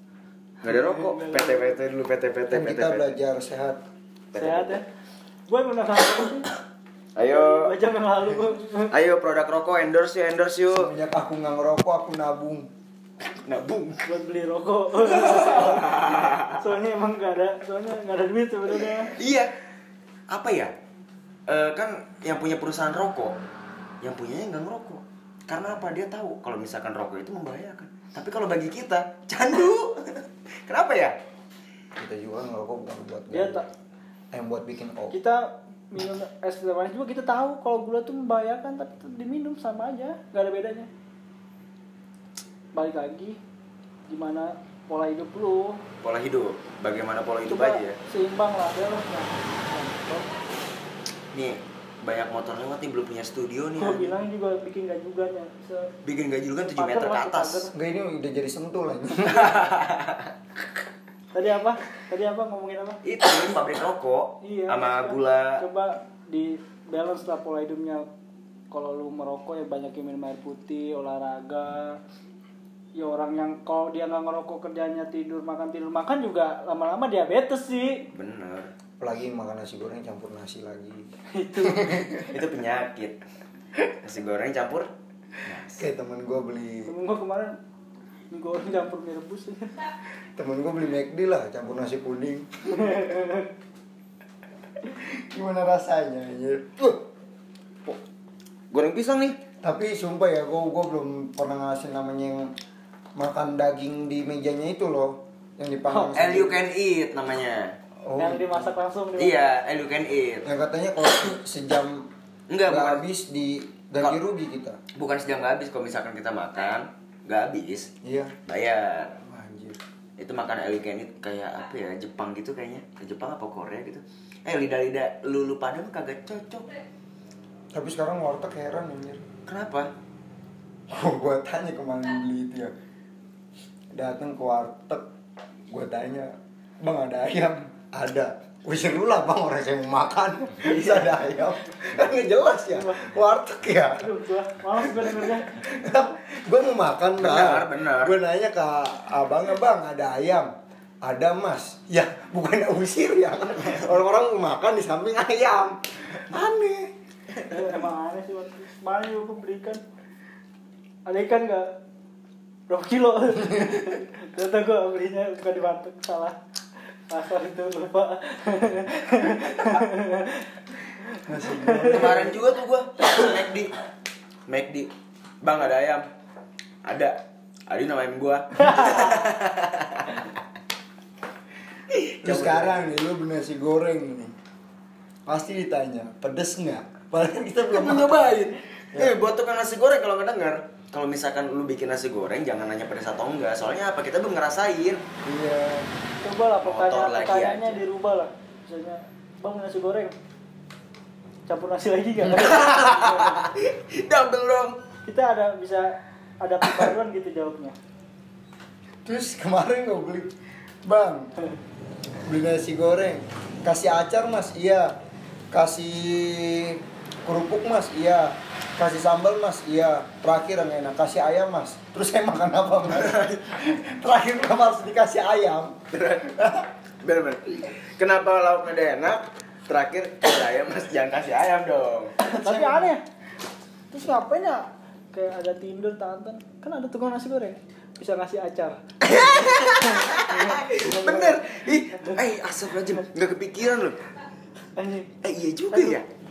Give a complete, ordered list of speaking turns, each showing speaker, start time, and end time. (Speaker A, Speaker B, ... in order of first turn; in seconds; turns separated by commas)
Speaker A: 0.6-3.1, Speaker B: 0.6-1.8, Speaker C: 2.5-3.8, Speaker A: 4.3-4.8, Speaker B: 4.3-4.9, Speaker B: 5.5-6.5, Speaker A: 7.2-7.7, Speaker B: 7.3-8.9, Speaker A: 8.9-10.9, Speaker C: 10.7-12.7, Speaker A: 13.3-14.1, Speaker B: 14.1-19.1, Speaker A: 15.1-16.6, Speaker A: 19.1-19.5, Speaker A: 20.3-20.7, Speaker A: 21.5-23.4, Speaker A: 24.0-31.2, Speaker C: 32.0-33.6, Speaker B: 33.3-33.7, Speaker C: 34.3-35.2, Speaker B: 35.1-40.9, Speaker B: 42.8-43.4, Speaker B: 44.1-45.8, Speaker A: 46.0-48.0, Speaker B: 47.5-50.3, Speaker A: 51.3-54.2, Speaker B: 53.8-55.9, Speaker A: 56.0-57.7, Speaker B: 56.6-57.7, Speaker C: 57.7-59.7, Speaker A: 59.3-60.3, Speaker B: 61.3-63.0, Speaker A: 63.0-65.6, Speaker B: 64.4-68.1, Speaker B: 68.7-72.0, Speaker B: 73.0-78.0, Speaker A: 78.1-78.7, Speaker C: 79.0-82.3, Speaker B: 81.3-82.1, Speaker A: 82.2-83.2, Speaker A: 83.9-84.9, Speaker A: 85.4-85.8, Speaker C: 85.8-86.9, Speaker B: 86.8-87.6, Speaker B: 88.3-89.8, Speaker C: 90.4-92.9, Speaker B: 92.8-93.5, Speaker C: 94.8-97.1, Speaker A: 98.7-99.4, Speaker C: 99.6-102.5, Speaker C: 103.2-106.6, Speaker B: 105.9-106.1, Speaker A: 106.1-107.8, Speaker C: 108.0-108.7, Speaker B: 108.2-109.4, Speaker A: 109.2-110.5, Speaker C: 110.5-112.1, Speaker A: 112.5-113.0, Speaker C: 112.7-114.8, Speaker A: 115.0-117.9, Speaker C: 118.0-118.3, Speaker A: 118.5-119.2, Speaker C: 119.2-119.8, Speaker A: 120.2-126.7, Speaker C: 127.7-129.2, Speaker A: 129.5-129.9, Speaker C: 130.9-132.7, Speaker C: 133.9-135.1, Speaker C: 135.7-144.1, Speaker A: 140.6-141.1, Speaker B: 142.7-143.1, Speaker B: 144.0-145.6, Speaker C: 144.8-150.5, Speaker A: 147.2-148.2, Speaker C: 151.0-156.9, Speaker B: 157.4-159.8, Speaker B: 161.1-161.7, Speaker B: 162.7-166.4, Speaker B: 167.1-170.5, Speaker B: 171.1-172.0, Speaker C: 171.2-172.4, Speaker A: 171.8-173.7, Speaker A: 174.5-174.9, Speaker A: 175.4-176.1, Speaker A: 176.8-177.2, Speaker A: 177.7-180.3, Speaker A: 181.9-183.0, Speaker C: 182.2-184.3, Speaker C: 185.3-189.2, Speaker A: 187.7-195.0, Speaker C: 195.2-195.9, Speaker B: 196.2-200.1, Speaker A: 196.6-197.8, Speaker B: 201.5-203.5, Speaker A: 202.3-204.8, Speaker B: 205.1-207.8, Speaker C: 209.1-210.3, Speaker C: 210.8-211.3, Speaker C: 212.2-215.0, Speaker C: 215.5-225.8, Speaker A: 222.9-223.7, Speaker A: 225.9-232.1, Speaker B: 232.2-233.0, Speaker C: 232.3-232.9, Speaker B: 233.9-240.8, Speaker A: 239.0-244.0, Speaker C: 240.7-241.4, Speaker B: 244.8-245.1, Speaker A: 245.2-246.1, Speaker B: 245.7-246.0